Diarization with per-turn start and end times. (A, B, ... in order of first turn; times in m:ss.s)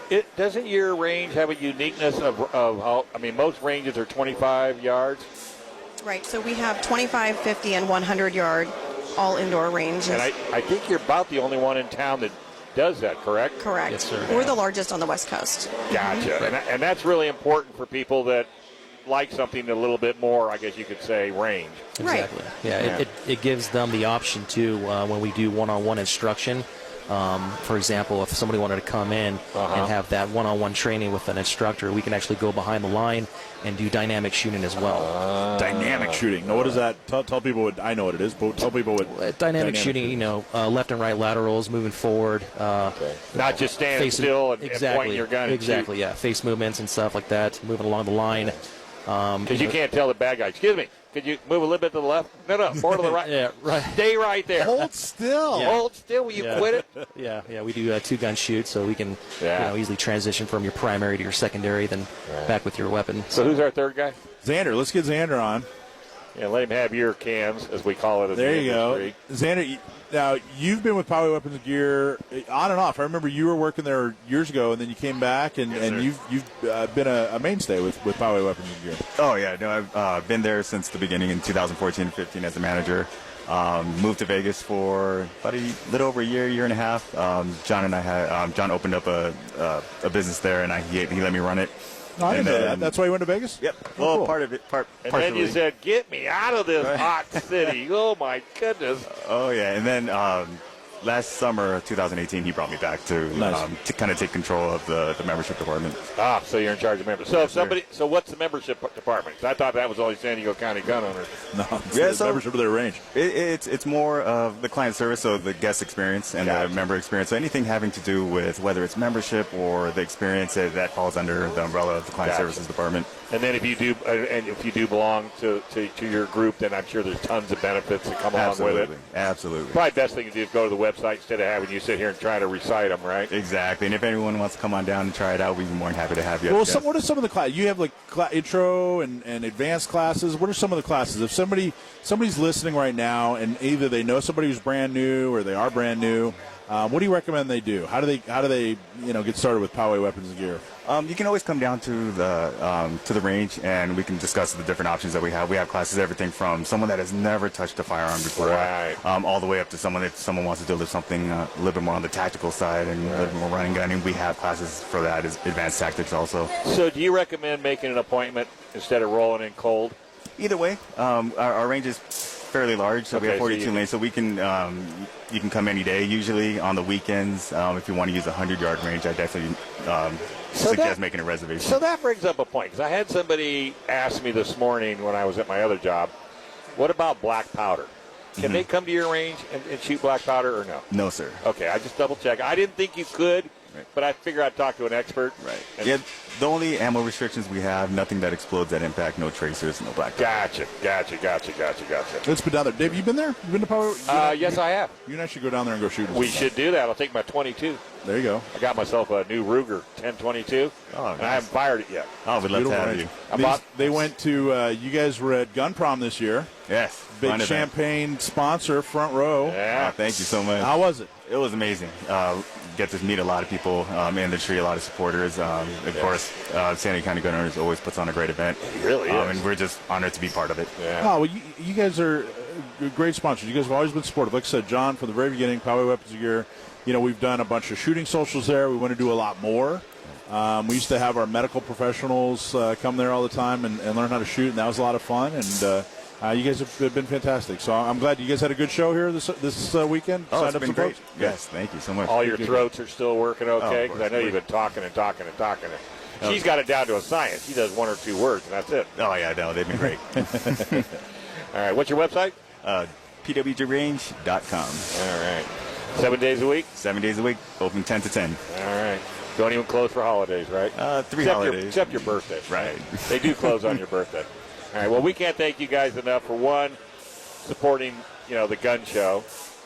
0:00.1-0:05.3 A
0:06.0-0:10.3 B
0:10.1-0:13.6 A
0:13.6-0:16.3 B
0:13.9-0:14.5 C
0:15.9-0:18.5 A
0:19.0-0:21.9 A
0:22.0-0:35.1 C
0:22.0-0:22.3 B
0:22.6-0:23.0 A
0:29.5-0:29.9 A
0:34.8-0:36.8 A
0:35.6-0:40.2 D
0:39.1-0:49.8 C
0:42.9-0:45.9 A
0:49.4-0:54.8 A
0:52.9-0:54.0 C
0:54.5-0:55.8 D
0:55.5-1:03.3 C
0:55.6-0:56.8 A
0:59.4-0:59.7 A
1:02.3-1:02.6 A
1:03.3-1:04.2 A
1:04.4-1:05.7 D
1:06.3-1:09.1 A
1:08.3-1:19.0 D
1:15.7-1:16.0 E
1:19.2-1:31.7 E
1:32.2-1:34.3 D
1:32.2-1:33.0 E
1:33.6-1:35.6 E
1:35.0-1:39.1 A
1:36.8-1:37.1 E
1:39.1-1:46.0 E
1:43.3-1:43.6 D
1:46.1-1:51.3 A
1:47.4-1:47.8 E
1:51.5-1:53.0 D
1:51.9-1:52.4 E
1:53.1-2:03.1 E
1:56.4-1:56.8 A
2:02.2-2:02.6 A
2:03.3-2:08.9 A
2:08.3-2:09.8 E
2:09.7-2:13.3 A
2:13.3-2:16.8 E
2:16.5-2:30.6 D
2:30.8-2:46.5 E
2:38.4-2:39.0 A
2:43.0-2:43.4 A
2:46.6-2:50.0 A
2:50.4-3:01.8 E
2:53.1-2:53.8 A
3:00.5-3:01.0 A
3:01.6-3:06.1 A
3:06.8-3:10.8 A
3:08.4-3:08.6 E
3:10.9-3:11.4 E
3:11.4-3:15.9 A
3:15.4-3:20.5 E
3:20.2-3:22.2 A
3:22.2-3:26.5 D
3:24.1-3:24.9 A
3:26.1-3:27.8 A
3:28.0-3:28.4 D
3:28.5-3:32.1 A
3:30.9-3:31.5 E
3:32.2-3:33.1 E
3:32.5-3:36.5 D
3:33.3-3:34.0 A
3:36.7-3:37.7 E
3:37.1-3:39.6 D
3:39.4-3:39.9 A
3:39.7-3:50.7 E
3:40.6-3:41.1 D
3:45.9-3:46.2 A
3:48.6-3:49.4 A
3:50.8-3:51.1 A
3:51.0-4:11.4 D
4:10.3-4:12.2 E
4:12.0-4:18.9 A
4:12.2-4:12.6 D
4:13.6-4:14.4 E
4:19.0-4:20.8 E
4:21.5-4:22.3 A
4:22.6-4:24.9 E
4:24.9-4:26.7 A
4:26.7-4:28.4 E
4:28.5-4:36.8 A
4:30.7-4:33.7 E
4:37.4-4:39.2 A